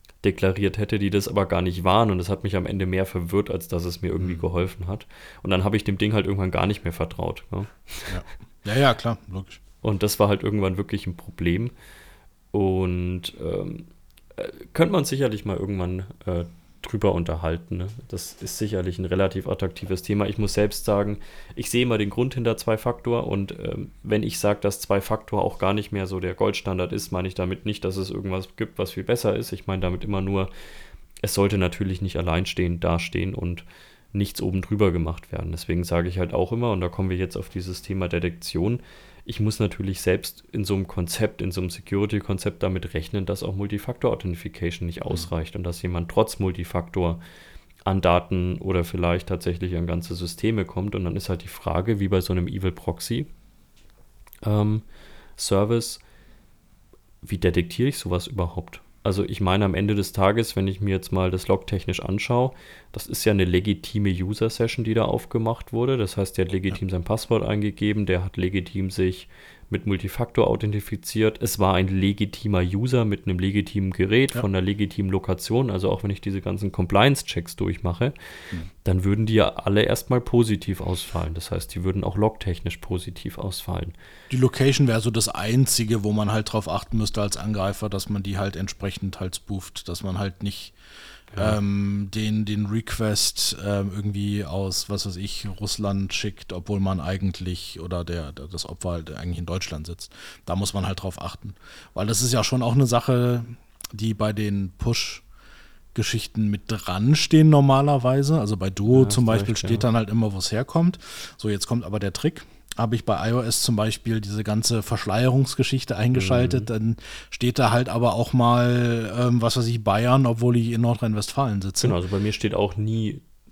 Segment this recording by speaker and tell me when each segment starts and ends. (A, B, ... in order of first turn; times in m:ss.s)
0:00.2-0:08.2 A
0:08.1-0:09.6 B
0:09.8-0:11.7 A
0:12.5-0:30.5 A
0:31.2-0:47.2 A
0:47.8-0:53.3 A
0:54.4-0:54.8 A
0:55.4-0:56.0 A
0:57.2-1:18.1 A
1:18.8-1:23.9 A
1:24.3-1:30.7 B
1:31.3-1:31.6 A
1:31.4-1:45.2 B
1:45.9-2:02.0 B
1:48.9-1:49.8 A
1:56.1-1:56.7 A
2:01.8-2:03.2 A